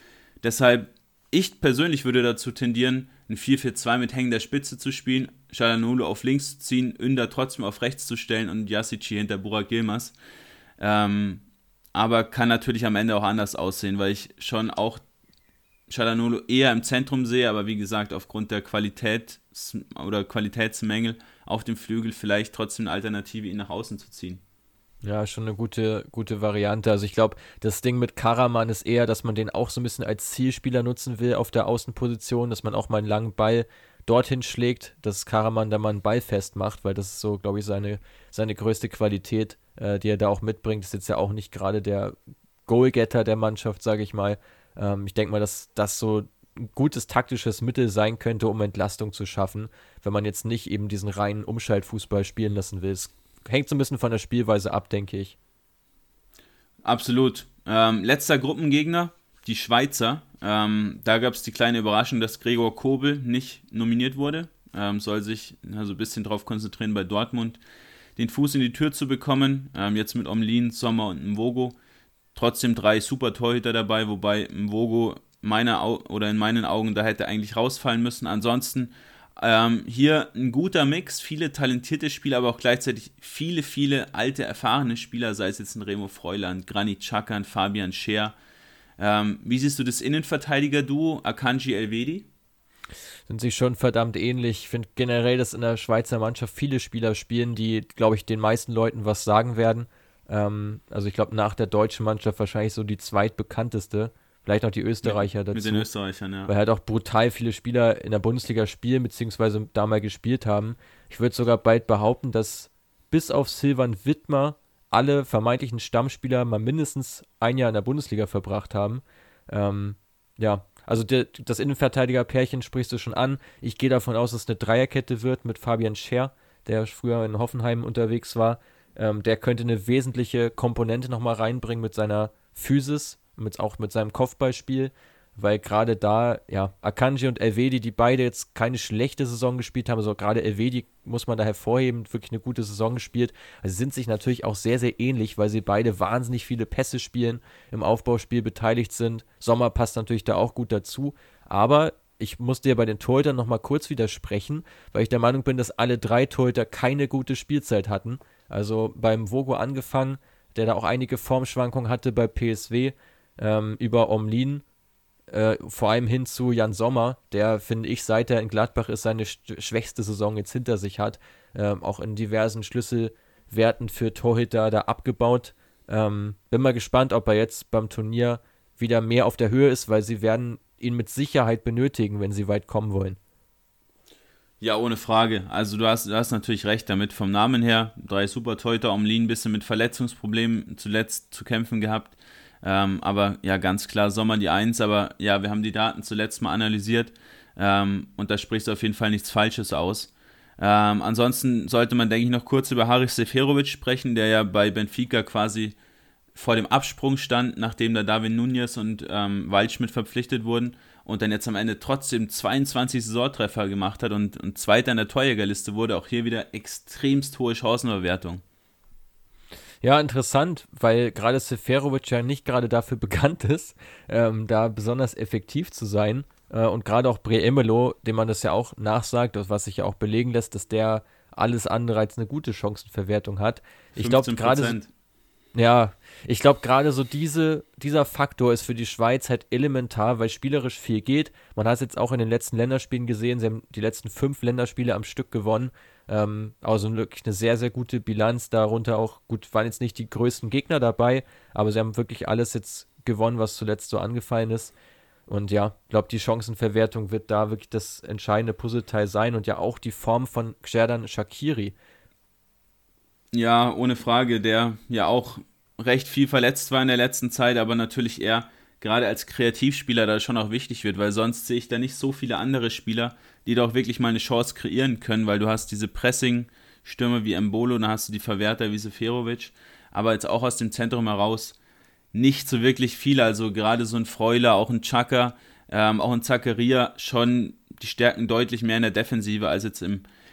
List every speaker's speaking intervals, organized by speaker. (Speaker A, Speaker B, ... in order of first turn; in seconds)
Speaker A: 0.4-10.1, 10.8-11.4, 11.9-15.0, 15.9-24.4, 56.8-67.6, 68.2-71.8, 72.3-88.3, 89.0-92.3, 105.0-106.5, 184.6-205.7, 206.3-218.4, 234.0-234.9, 263.3-281.6, 282.1-290.0
Speaker B: 25.0-42.1, 42.7-55.4, 93.3-105.9, 106.5-164.6, 165.3-183.2, 219.8-234.8, 235.5-254.7, 255.3-261.7